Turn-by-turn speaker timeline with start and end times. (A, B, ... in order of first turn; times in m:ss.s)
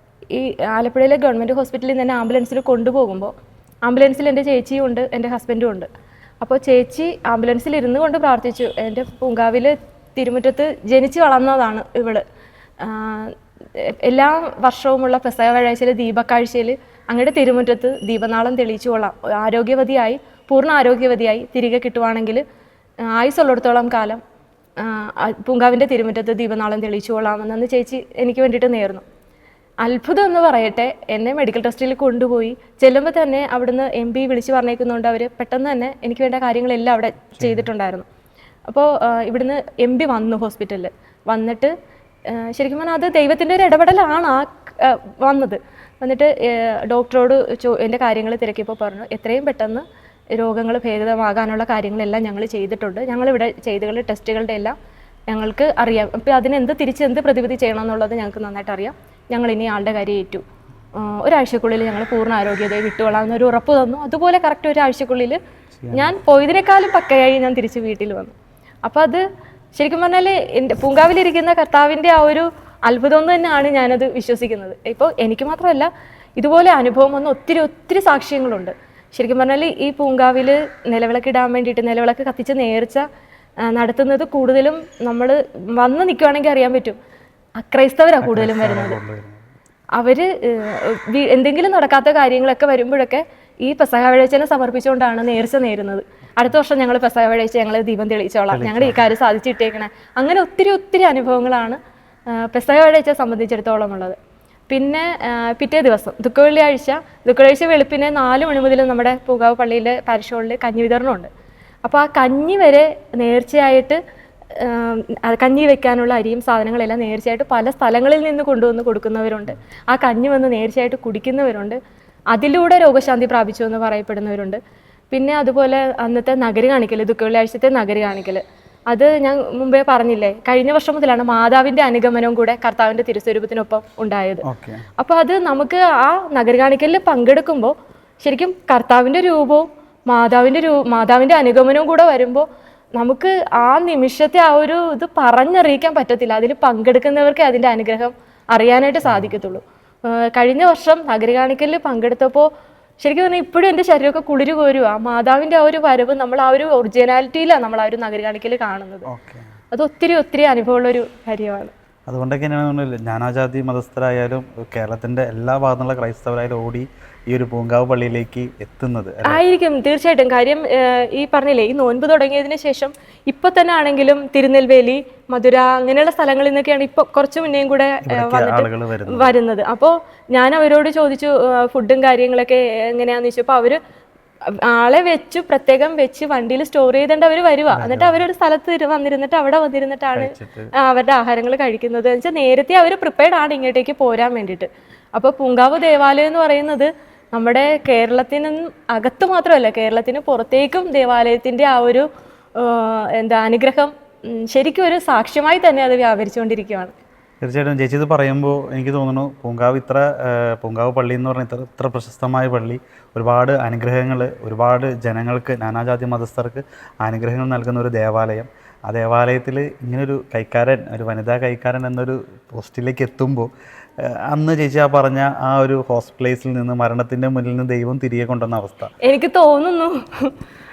0:00.3-0:03.3 A
0:03.8-0:05.9 A
0:06.4-0:12.2 A
0:12.8-0:22.4 A
0:23.2-0:24.2 A
0:24.8-0:29.0 A
0:29.8-0:38.0 A
0:37.4-0:37.7 B
0:38.7-0:41.7 A
0:42.3-0:49.8 A
0:50.4-0:54.8 A
0:55.3-1:00.4 A
1:01.0-1:05.4 A
1:05.8-1:06.1 B
1:05.9-1:09.2 A
1:09.8-1:23.0 A
1:23.7-1:27.0 A
1:27.6-1:29.0 A
1:28.2-1:29.4 B
1:30.0-1:41.8 A
1:38.5-1:39.1 B
1:42.3-1:44.2 A
1:44.7-1:51.3 A
1:51.8-1:54.0 A
1:54.6-2:01.8 A
2:02.3-2:04.6 A
2:05.1-2:14.4 A
2:14.4-2:14.9 B
2:15.0-2:22.5 A
2:23.0-2:32.5 A
2:29.0-2:29.4 B
2:33.0-2:39.1 A
2:39.1-2:39.5 B
2:39.7-2:41.7 A
2:42.1-2:49.4 B
2:49.2-3:03.8 A
2:58.0-2:59.3 B
3:04.7-3:26.9 A
3:07.7-3:08.3 B
3:10.2-3:10.7 B
3:27.4-3:43.5 B
3:44.0-3:48.9 B
3:49.0-3:50.4 A